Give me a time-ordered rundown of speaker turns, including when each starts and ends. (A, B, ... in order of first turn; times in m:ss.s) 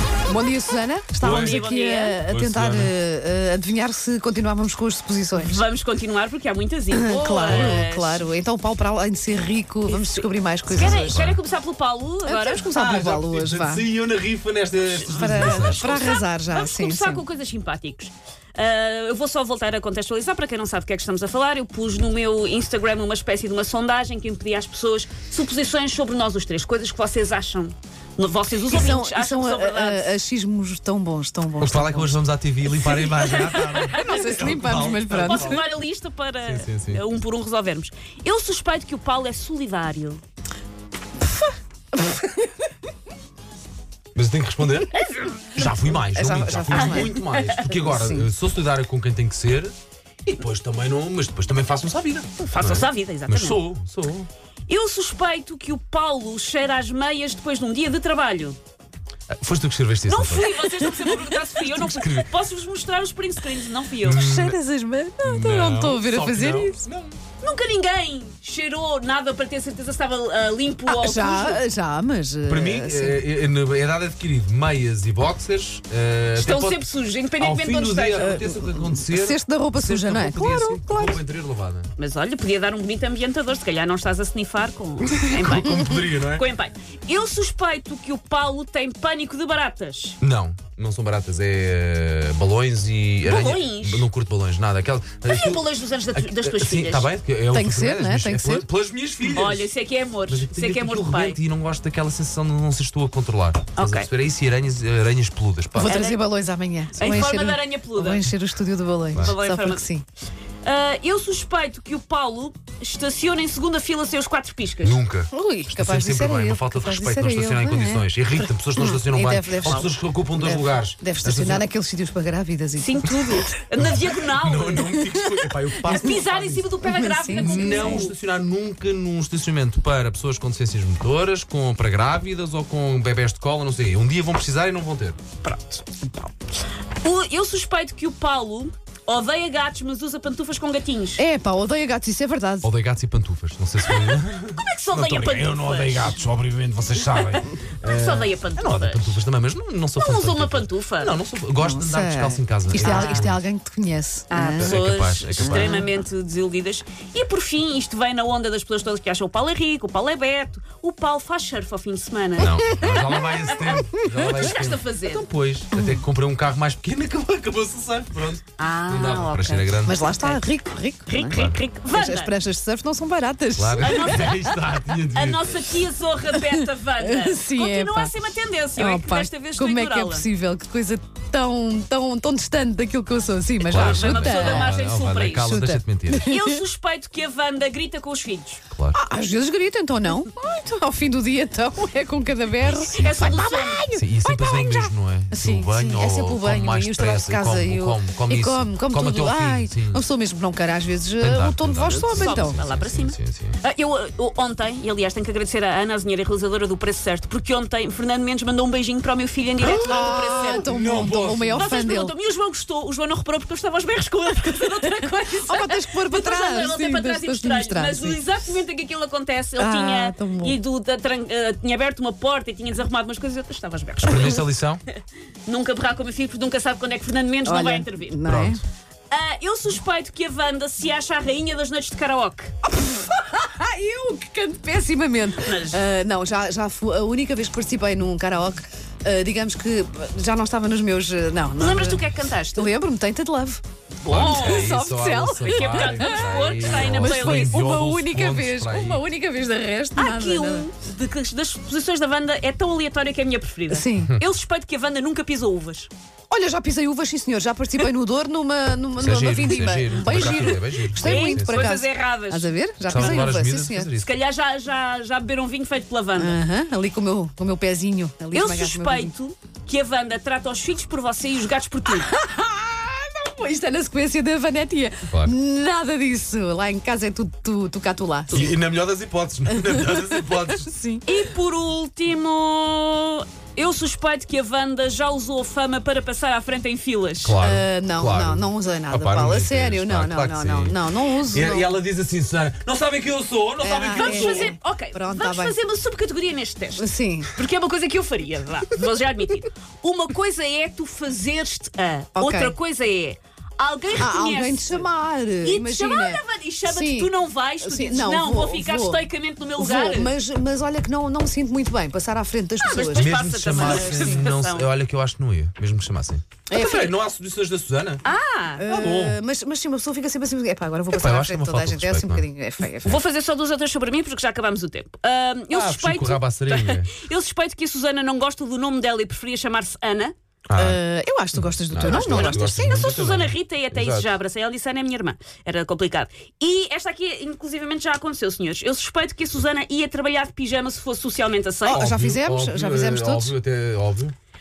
0:00.3-0:05.6 A
0:01.2-0:01.6 B
0:01.2-0:02.2 C
0:02.3-0:02.9 B
0:05.4-0:08.3 C
0:06.9-0:11.2 A
0:07.4-0:07.8 B
0:09.9-0:12.7 C
0:10.7-0:11.4 B
0:12.2-0:13.8 A
0:12.7-0:16.2 B
0:14.9-0:30.1 C
0:15.0-0:17.2 A
0:28.7-0:32.1 A
0:31.6-0:35.6 B
0:33.1-0:34.0 C
0:33.7-0:35.6 A
0:35.1-0:40.2 C
0:36.4-0:37.0 B
0:42.0-0:42.4 A
0:44.1-0:44.9 B
0:45.1-0:45.7 C
0:45.5-0:49.7 B
0:45.8-0:48.3 A
0:46.7-0:47.5 C
0:50.3-0:54.3 B
0:52.4-0:53.6 C
0:54.7-0:58.6 C
0:59.3-1:02.3 B
1:00.0-1:04.2 C
1:04.0-1:04.6 B
1:04.1-1:06.8 A
1:05.2-1:07.2 B
1:07.4-1:11.6 C
1:10.9-1:13.2 A
1:12.4-1:16.8 B
1:16.4-1:18.5 C
1:17.4-1:21.9 B
1:18.4-1:21.2 A
1:22.0-1:30.2 C
1:25.0-1:26.4 B
1:30.2-1:39.7 B
1:33.2-1:34.1 C
1:35.2-1:37.1 C
1:37.5-1:38.7 A
1:39.3-1:41.4 C
1:40.3-1:46.0 B
1:43.8-1:44.1 C
1:45.8-1:50.0 A
1:45.8-1:46.2 C
1:46.9-1:48.2 C
1:49.1-1:49.9 C
1:50.6-1:55.0 C
1:54.8-2:01.6 B
1:55.3-2:03.5 A
2:02.8-2:04.9 C
2:03.8-2:06.7 B
2:04.8-2:08.1 A
2:05.8-2:08.1 C
2:07.4-2:15.2 B
2:15.4-2:16.3 C
2:17.0-2:21.2 C
2:21.2-2:22.7 A
2:22.6-2:33.4 B
2:23.8-2:26.2 C
2:27.8-2:29.2 C
2:30.0-2:31.1 C
2:31.6-2:34.8 A
2:32.7-2:33.3 C
2:34.3-2:45.2 C
2:34.6-2:35.8 B
2:35.4-2:35.9 A
2:42.4-2:50.0 B
2:42.6-2:44.2 A
2:45.7-2:46.0 A
2:48.6-2:50.4 C
2:49.8-2:54.8 A
2:51.1-2:52.3 C
2:53.6-2:55.5 B
2:53.8-2:54.4 C
2:55.1-3:00.2 C
2:56.3-2:58.1 A
2:58.8-3:04.7 A
3:03.7-3:05.5 C
3:03.7-3:06.3 B
3:05.4-3:06.6 A
3:06.1-3:08.6 C
3:08.7-3:09.0 B
3:08.9-3:22.6 A
3:12.6-3:20.0 B
3:12.9-3:13.9 C
3:21.2-3:23.6 B
3:21.9-3:30.7 C
3:29.6-3:31.7 B
3:29.6-3:32.1 A
3:31.5-3:48.2 C
3:35.4-3:38.2 A
3:39.6-3:40.6 A
3:44.0-3:44.8 B
3:44.1-3:44.4 A
3:47.4-3:48.6 A
3:48.2-3:48.6 B
3:49.1-3:52.5 C
3:52.6-4:10.7 A
3:55.4-3:55.8 C
4:01.6-4:02.7 C
4:04.0-4:04.8 C
4:04.1-4:09.0 B
4:05.4-4:07.6 C
4:10.0-4:15.9 C
4:13.7-4:14.1 A
4:16.3-4:23.9 A
4:19.0-4:21.7 B
4:20.0-4:23.3 C
4:22.9-4:24.2 B
4:24.0-4:26.4 C
4:26.2-4:29.1 A
4:28.3-4:32.1 C
4:31.9-4:38.6 A
4:38.3-4:40.7 B
4:39.5-4:41.0 A
4:41.0-4:47.4 C
4:47.2-4:54.6 B
4:47.4-4:51.7 A
4:53.6-4:55.5 A
4:53.9-5:04.9 C
4:56.8-4:57.3 A
5:02.1-5:02.5 A
5:03.9-5:09.0 A
5:05.4-5:10.1 C
5:09.6-5:14.2 A
5:12.6-5:14.7 C
5:12.9-5:18.0 B
5:16.5-5:16.9 A
5:18.0-5:18.8 C
5:18.6-5:23.0 A
5:18.7-5:19.2 B
5:20.9-5:22.2 B
5:22.8-5:30.1 C
5:25.5-5:27.0 B
5:30.5-5:30.8 B
5:30.6-5:32.9 A
5:31.3-5:34.1 B
5:31.8-5:41.8 C
5:41.6-5:43.3 A
5:41.7-5:44.1 B